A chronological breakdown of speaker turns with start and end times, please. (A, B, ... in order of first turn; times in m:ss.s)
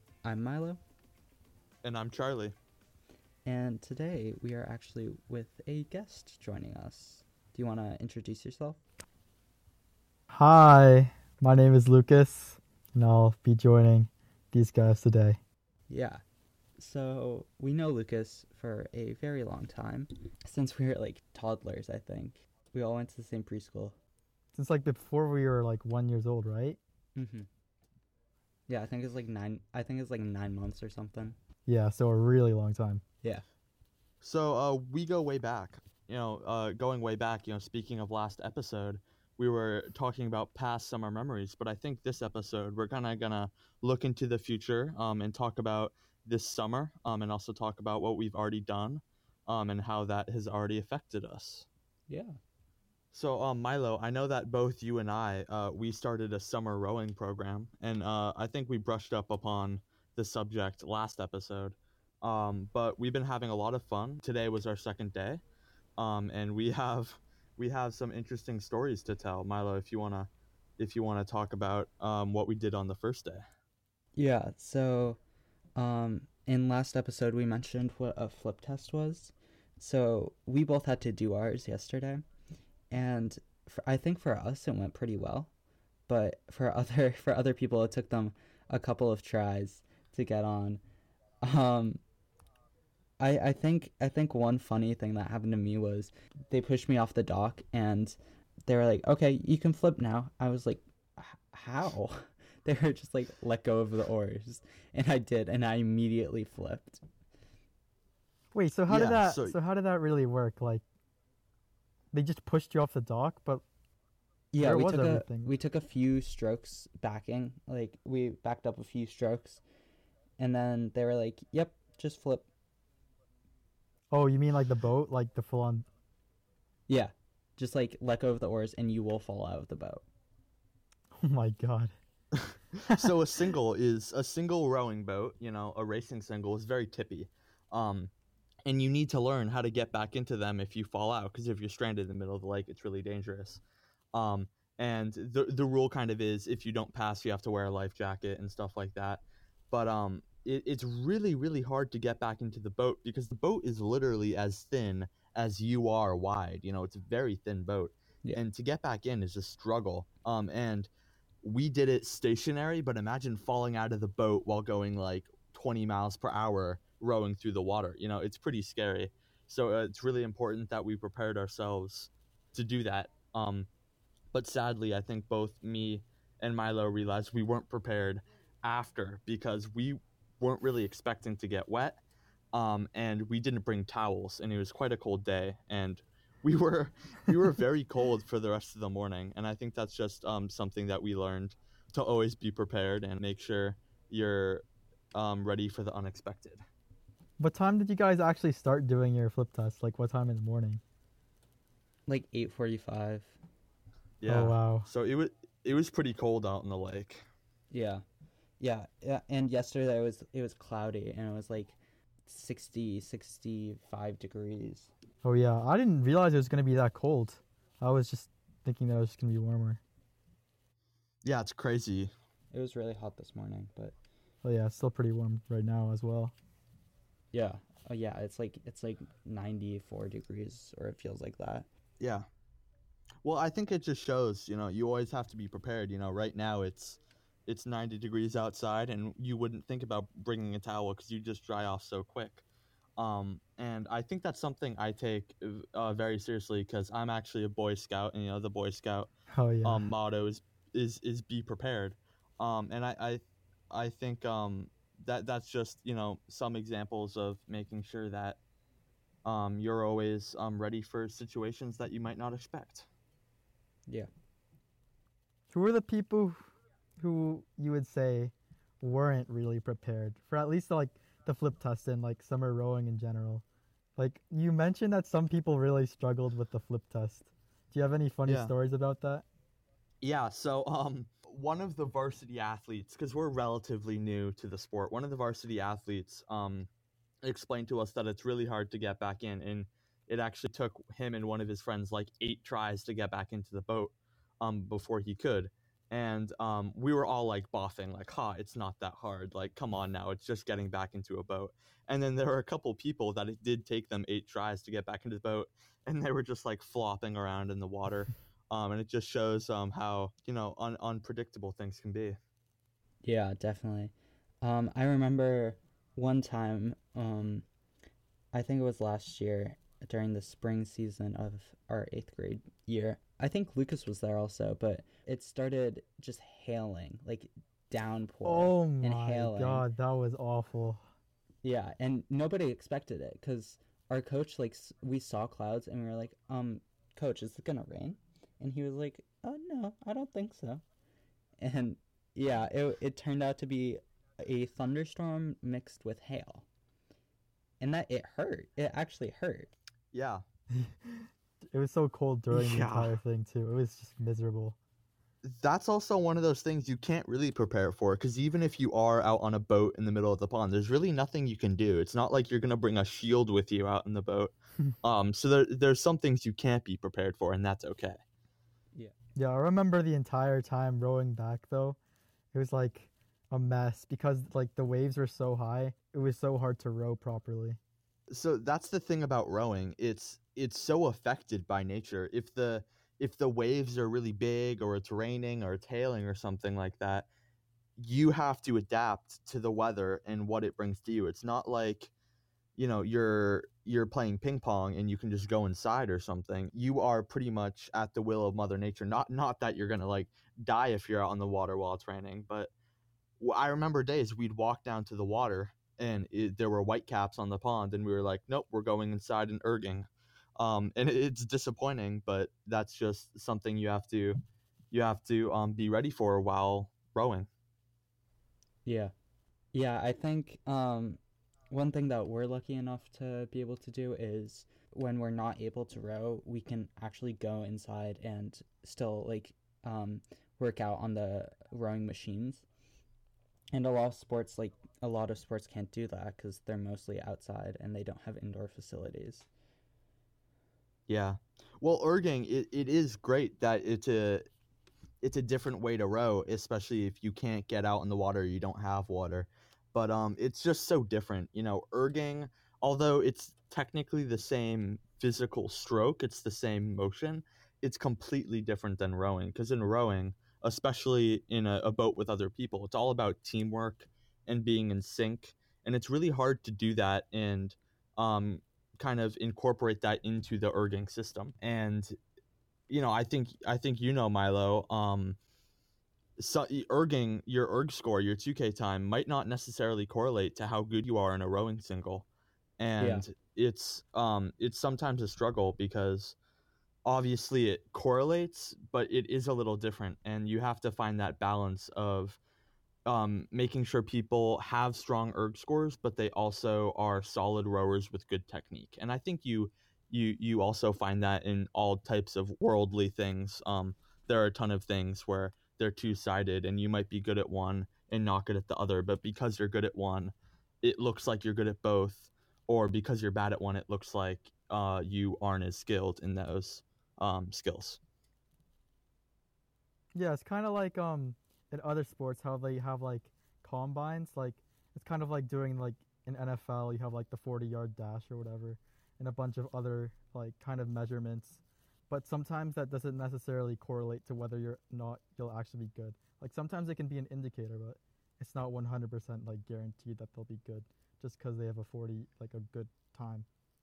0:00.2-0:00.8 A
0:01.8-0:02.5 B
0:03.4-0:08.8 A
0:10.3-0:15.4 C
0:15.9-0:16.2 A
0:16.8-0:24.0 A
0:24.5-0:26.8 C
0:27.2-0:27.5 A
0:28.7-0:31.4 A
0:31.6-0:33.0 C
0:34.2-0:51.6 B
0:52.1-0:52.4 A
0:53.1-1:05.4 B
1:06.0-1:13.4 B
1:14.2-1:15.2 A
1:15.8-1:22.2 A
1:22.9-1:25.5 A
1:26.1-1:30.8 A
1:31.4-1:32.0 A
1:33.2-1:38.2 A
1:38.7-1:47.0 A
1:48.5-1:50.8 C
1:48.9-1:49.6 B
1:52.1-1:53.6 C
1:54.5-1:59.6 A
1:54.6-1:55.5 C
2:00.4-2:02.5 A
2:04.1-2:05.8 C
2:06.9-2:10.0 A
2:11.1-2:11.9 C
2:12.5-2:18.1 B
2:18.6-2:23.6 B
2:24.1-2:40.9 B
2:41.4-2:53.7 B
2:54.3-3:02.0 B
3:02.5-3:16.6 B
3:17.4-3:20.8 C
3:22.1-3:23.4 A
3:24.2-3:27.2 B
3:24.3-3:24.9 C
3:27.7-3:28.0 A
3:28.6-3:34.9 A
3:35.2-3:39.8 C
3:41.2-3:42.1 B
3:42.5-3:43.9 A
3:44.4-3:46.3 C
3:47.3-3:51.7 A
3:52.0-3:52.2 B
3:53.2-4:02.4 B
4:03.0-4:09.1 B
4:09.3-4:09.9 C
4:09.6-4:18.4 B
4:19.2-4:22.9 B
4:25.5-4:33.4 C
4:34.0-4:39.2 C
4:38.2-4:38.5 B
4:40.0-4:46.7 B
4:47.2-5:12.2 B
5:13.0-5:17.4 A
5:18.3-5:29.6 A
5:28.2-5:30.8 C
5:31.4-5:40.6 A
5:41.4-5:46.5 A
5:47.6-5:49.5 A
5:49.9-5:50.2 B
5:50.5-5:54.6 C
5:52.3-5:53.0 B
5:55.2-6:08.0 B
6:09.2-6:11.8 C
6:12.3-6:17.6 C
6:18.1-6:27.1 B
6:27.8-6:31.9 B
6:32.6-6:42.5 B
6:43.2-6:57.3 B
6:58.6-6:58.9 A
6:59.5-7:01.0 A
7:01.5-7:12.4 A
7:13.5-7:19.3 A
7:20.9-7:24.2 B
7:25.0-7:51.9 B
7:52.7-7:55.2 B
7:56.2-8:02.0 B
8:02.6-8:06.1 B
8:02.8-8:03.0 A
8:06.8-8:12.2 B
8:12.8-8:37.8 B
8:39.9-9:03.3 C